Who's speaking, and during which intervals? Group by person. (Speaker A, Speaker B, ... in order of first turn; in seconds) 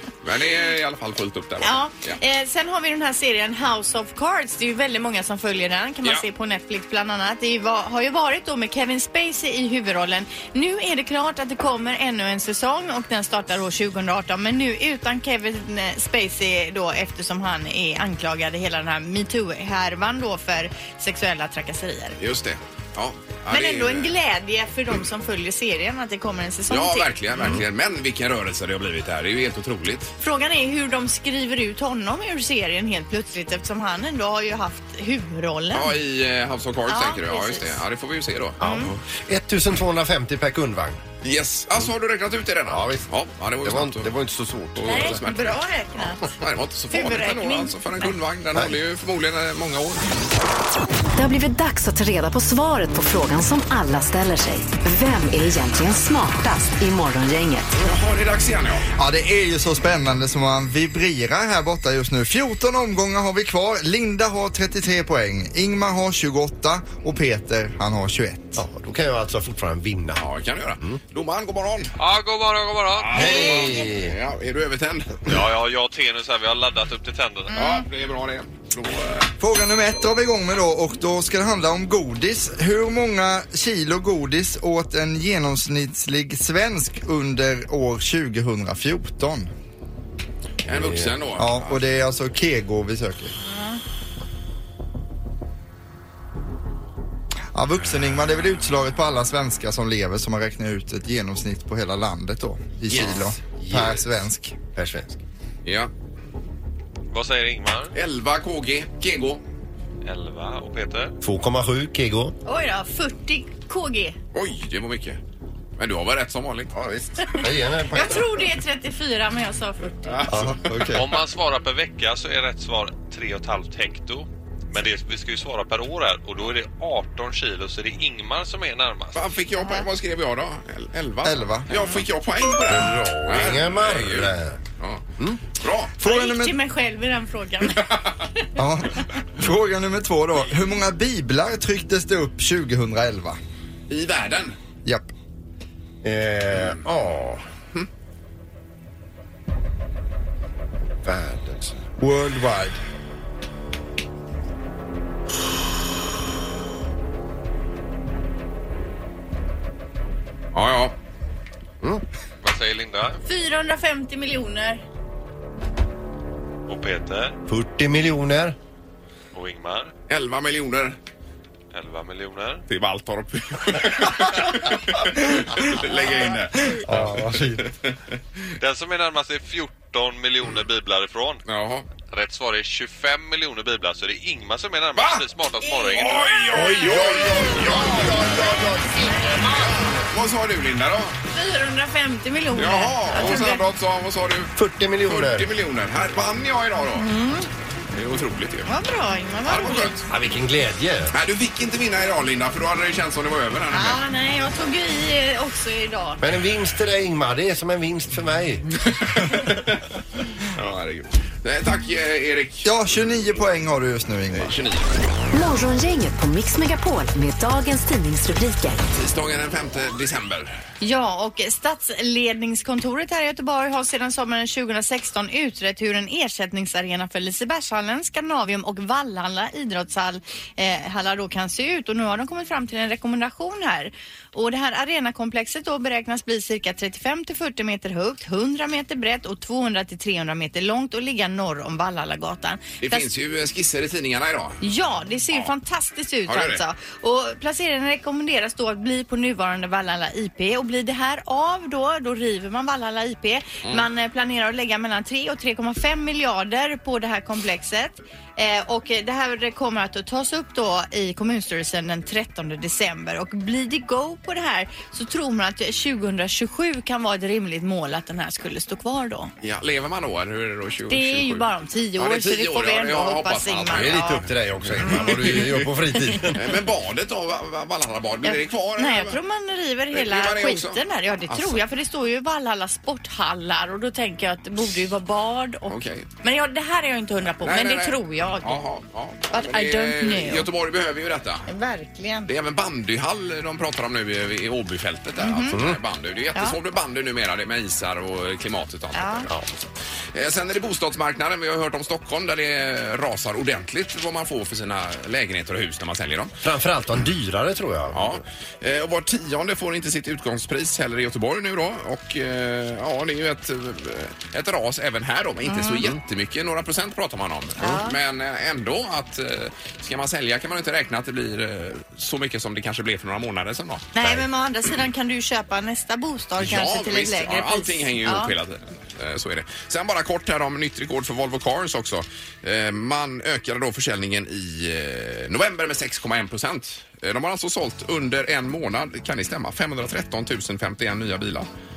Speaker A: 0.2-2.2, 22.2-24.1, 26.7-30.1, 35.7-38.9, 41.2-44.1, 44.8-45.6, 46.2-50.0, 57.8-58.9, 70.1-71.9, 73.0-75.3, 77.5-79.3, 90.6-91.8, 105.6-105.9, 107.9-109.4, 114.3-115.2, 115.8-116.7, 120.1-120.9, 129.1-135.0, 135.6-135.9, 143.9-144.6, 160.5-160.9, 170.1-171.0, 172.7-178.0, 181.4-181.8, 184.9-185.2, 185.9-188.4, 189.9-191.2, 192.5-194.5, 195.0-197.1, 197.9-198.7, 199.4-200.1, 201.1-204.0, 208.8-209.8, 210.5-212.7, 214.3-215.1, 218.9-220.6, 242.8-244.6, 246.3-246.6, 269.4-275.7, 276.3-279.2, 279.9-281.6, 285.7-286.1, 287.4-291.5, 292.3-299.3, 300.1-306.3, 307.9-324.2, 326.4-341.5
Speaker B: 1.6-22.2, 23.5-27.1, 30.2-35.9, 36.9-37.8, 38.6-38.9, 44.8-46.3, 46.9-48.1, 77.5-77.8, 93.4-93.8, 112.4-114.2, 117.9-120.2, 129.6-129.8, 136.0-138.4, 163.2-164.8, 185.6-186.9, 191.3-193.6, 196.9-197.5, 198.7-200.0, 203.7-206.2, 220.8-243.1, 244.6-269.3, 270.9-274.2, 274.8-275.4, 275.9-276.3, 278.2-288.6, 289.3-290.5, 291.5-292.3, 295.2-295.6, 298.9-299.3, 315.5-315.8, 317.6-318.0, 323.9-328.3
Speaker C: 38.6-41.0, 42.7-43.0, 43.6-45.2, 68.6-70.2, 73.1-74.2, 90.7-91.1, 102.9-104.0, 104.7-105.2, 111.2-112.3, 116.7-118.4, 120.3-120.6, 132.7-134.6, 146.0-147.4, 151.0-151.8, 167.5-168.6, 176.8-177.7, 186.5-189.3, 194.5-195.5, 200.1-201.1, 206.2-208.7, 273.7-276.5, 295.5-295.8, 299.3-299.7, 306.4-308.2
Speaker D: 51.1-57.7, 215.3-218.8
Speaker E: 59.0-68.6, 79.4-89.5, 91.4-93.3, 97.5-104.5, 120.4-121.2, 131.2-131.7, 136.0-136.6, 138.6-143.4, 144.8-145.1, 152.0-152.8, 212.6-214.6
Speaker F: 72.0-73.3, 75.2-77.6, 107.1-107.9, 110.0-111.1, 120.9-129.2, 162.4-163.2, 166.7-167.4, 169.3-169.9, 171.7-172.6, 178.6-181.4, 182.1-186.4